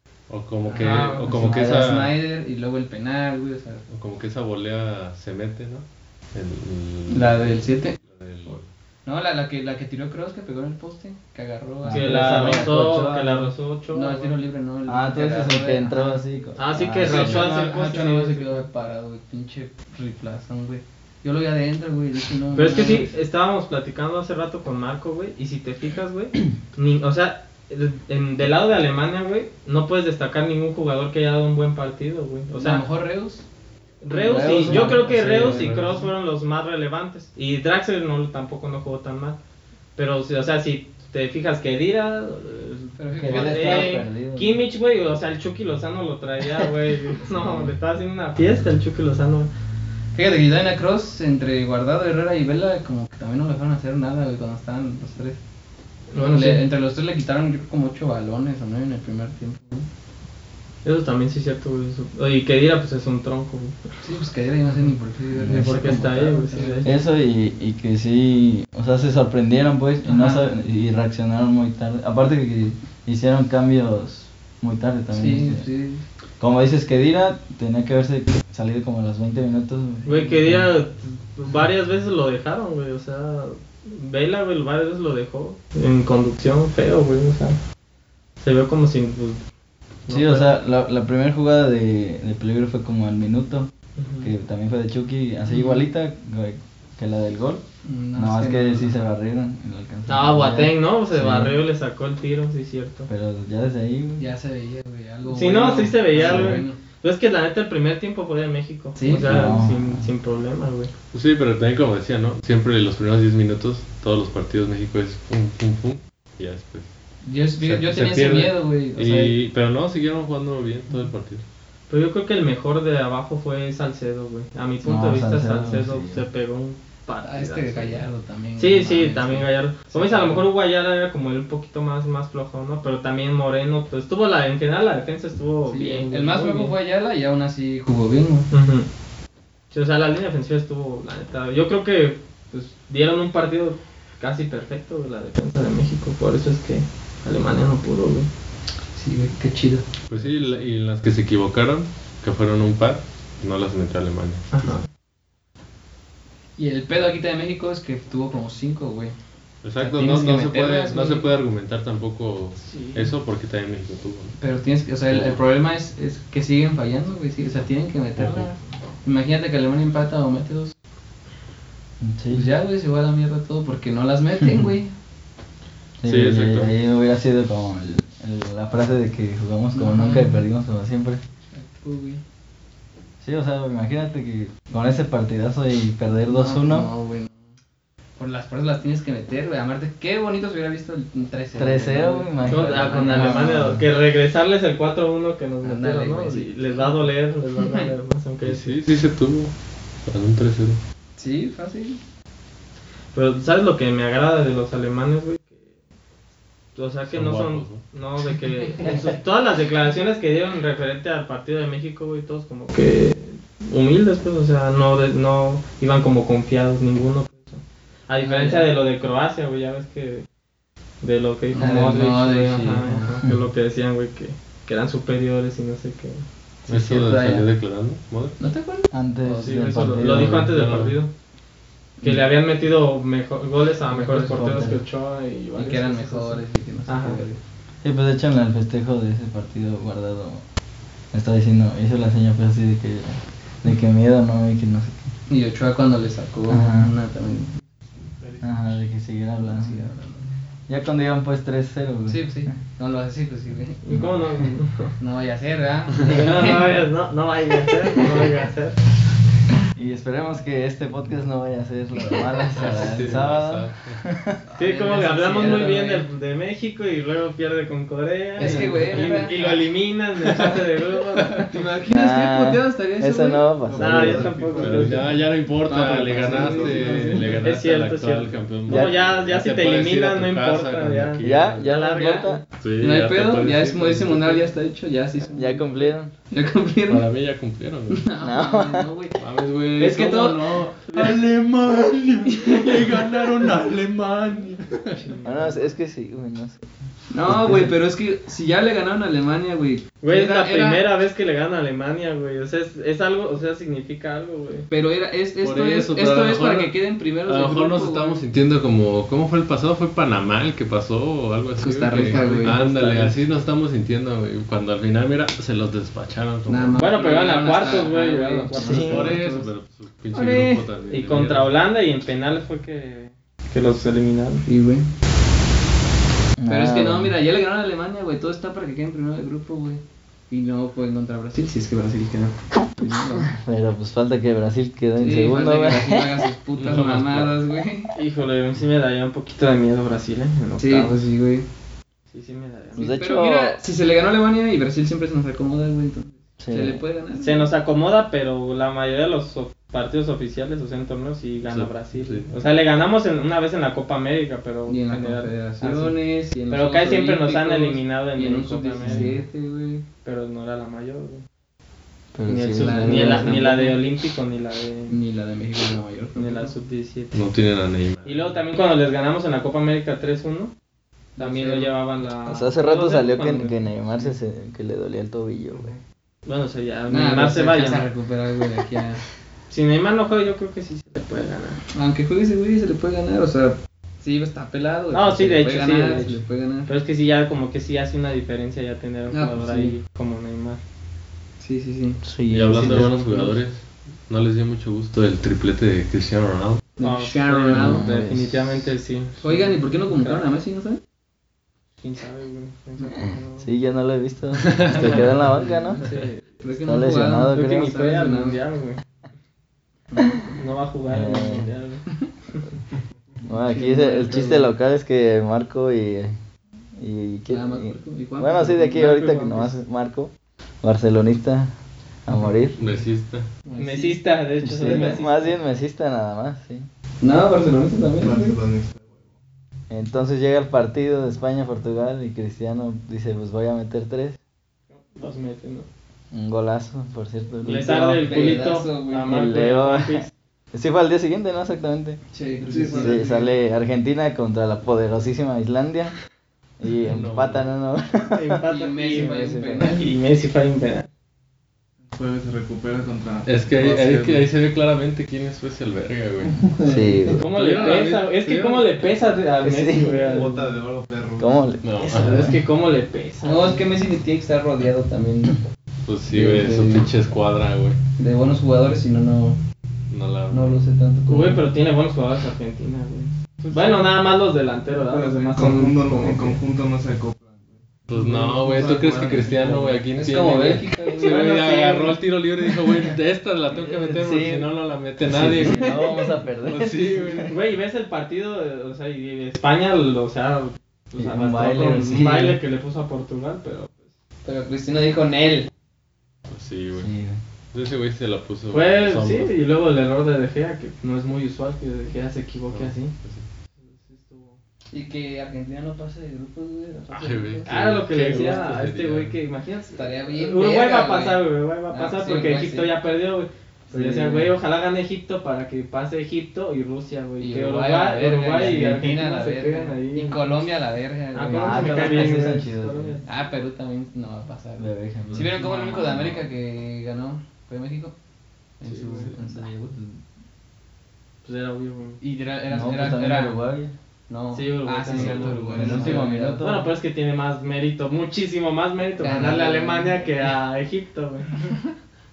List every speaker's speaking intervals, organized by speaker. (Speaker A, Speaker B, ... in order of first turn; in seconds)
Speaker A: 0.3-2.1, 3.9-8.7, 17.1-17.5, 35.4-35.9, 111.1-116.9, 117.6-121.4, 150.1-154.8, 159.6-164.4, 165.1-165.4, 168.2-168.5, 176.0-176.7, 198.4-199.5, 200.0-200.8, 207.1-207.8, 226.7-228.4, 230.0-231.0, 262.6-264.0, 274.6-281.7, 282.6-284.5, 286.9-288.1, 289.2-295.0, 305.4-316.8, 318.7-321.5, 336.6-337.4, 351.4-352.3, 367.1-368.4, 392.3-396.6, 404.6-404.9, 422.6-423.3, 446.9-447.4, 453.2-456.4, 457.2-458.7, 461.6-462.3, 465.8-467.8, 469.9-470.6, 477.9-485.8, 486.4-487.3, 496.3-496.9, 497.5-499.3, 502.5-503.2, 506.9-509.2, 525.0-526.2
Speaker B: 0.7-3.8, 7.1-8.0, 9.0-12.7, 13.9-16.2, 17.0-23.1, 32.5-33.4, 34.1-36.0, 43.0-44.0, 50.1-55.4, 56.2-59.9, 64.0-66.9, 70.0-70.4, 75.1-76.0, 97.8-99.0, 104.2-106.8, 109.0-109.3, 117.2-119.3, 127.2-130.4, 135.7-138.5, 148.9-149.8, 156.6-159.2, 159.8-161.3, 164.4-170.7, 172.3-174.9, 179.7-180.4, 181.5-182.2, 186.3-187.5, 188.2-193.6, 195.6-197.0, 201.2-202.0, 218.2-218.7, 221.5-223.2, 226.6-227.5, 228.4-230.0, 233.9-234.4, 235.5-237.4, 245.3-247.6, 249.4-250.3, 252.1-253.8, 255.0-256.7, 264.6-266.1, 268.4-269.4, 271.5-273.5, 275.6-277.4, 281.9-282.3, 282.8-287.1, 287.9-289.2, 289.8-290.7, 292.3-293.5, 297.1-300.9, 304.7-308.2, 311.6-313.1, 316.5-319.5, 320.1-320.7, 324.4-324.9, 326.5-333.3, 335.0-337.9, 340.6-341.4, 342.8-347.5, 354.7-359.8, 362.5-363.8, 364.9-366.5, 371.2-371.7, 376.9-379.0, 381.7-386.7, 389.1-389.8, 391.4-393.3, 396.8-397.9, 399.2-400.8, 405.8-408.4, 409.9-410.3, 413.4-414.5, 417.3-419.0, 423.4-424.0, 424.6-425.0, 427.0-428.4, 437.6-439.2, 442.1-443.1, 448.4-449.9, 456.6-457.0, 463.2-465.4, 466.1-466.9, 468.0-469.4, 470.3-471.4, 479.9-481.6, 485.4-485.8, 494.2-495.5, 504.7-507.5, 508.1-508.4, 509.7-512.7, 517.2-522.4, 523.0-527.9, 528.6-529.8, 532.0-533.4, 534.1-536.4, 539.0-540.3
Speaker C: 0.8-1.3, 11.9-14.3, 16.6-18.6, 22.5-32.8, 34.0-39.4, 40.0-49.5, 56.1-56.6, 60.8-63.9, 65.5-66.9, 80.0-87.6, 88.4-89.4, 90.1-90.5, 94.0-94.3, 100.1-103.1, 105.2-110.9, 121.9-128.1, 128.6-136.7, 138.5-138.9, 139.7-148.3, 154.5-154.8, 162.6-163.1, 192.5-198.7, 203.1-205.6, 206.7-220.2, 221.0-226.2, 229.4-231.1, 232.0-237.2, 253.8-254.9, 256.0-258.8, 264.6-271.5, 273.8-275.1, 277.4-282.4, 290.9-291.2, 294.9-295.7, 300.0-304.6, 312.1-312.6, 316.8-319.2, 320.9-324.4, 337.9-340.9, 342.1-342.9, 347.1-355.9, 356.5-359.1, 360.0-361.2, 362.3-365.0, 366.1-367.2, 368.0-370.5, 371.2-373.6, 376.2-377.9, 379.5-381.6, 384.9-390.6, 396.8-400.2, 401.8-403.5, 404.7-405.0, 407.3-408.8, 410.2-412.4, 418.7-419.6, 423.6-425.4, 434.9-435.7, 437.4-440.1, 448.1-450.9, 457.2-460.4, 461.9-463.6, 471.1-476.4, 481.0-481.9, 487.3-493.8, 498.5-502.9, 503.7-504.4, 507.4-520.4, 521.1-523.1, 528.7-529.1, 531.2-532.0, 534.3-541.5
Speaker D: 1.3-1.9, 11.8-13.5, 14.9-17.5, 34.1-35.9, 43.2-44.6, 47.4-47.7, 65.3-66.0, 66.8-75.7, 76.4-80.7, 90.1-93.7, 94.2-97.6, 98.1-101.6, 103.1-104.2, 106.2-106.6, 109.2-110.1, 124.8-126.2, 172.0-172.5, 176.0-181.2, 183.2-186.9, 191.5-193.8, 228.9-230.5, 234.1-234.8, 237.8-240.4, 241.1-245.1, 246.5-246.9, 248.4-249.9, 250.7-252.5, 259.7-264.4, 268.4-268.8, 271.9-274.3, 278.7-278.9, 281.2-282.4, 285.3-286.1, 288.2-288.9, 295.2-296.6, 297.2-297.7, 318.6-319.1, 326.4-327.1, 333.1-336.2, 342.8-343.6, 346.4-346.8, 358.8-359.2, 362.1-363.4, 372.2-375.7, 392.0-392.9, 397.5-398.7, 403.4-405.8, 406.6-407.7, 410.9-411.5, 413.2-416.1, 416.8-420.1, 420.6-421.5, 422.1-422.6, 424.4-426.7, 429.7-434.2, 436.1-438.4, 439.1-442.0, 442.8-446.0, 446.6-448.4, 448.9-449.8, 456.6-457.2, 459.4-460.0, 461.2-462.4, 483.6-484.5, 485.0-487.3, 490.9-492.4, 496.7-497.2, 513.7-514.3, 518.3-518.9, 521.3-523.0, 524.6-525.3, 529.0-529.9, 532.5-533.7, 535.5-536.7
Speaker E: 248.0-248.7, 273.6-275.2, 276.1-277.4, 375.5-375.8, 428.0-429.2, 442.4-443.3, 451.9-454.3, 456.3-456.6, 459.9-461.6, 473.5-473.8, 474.8-479.8, 534.9-536.1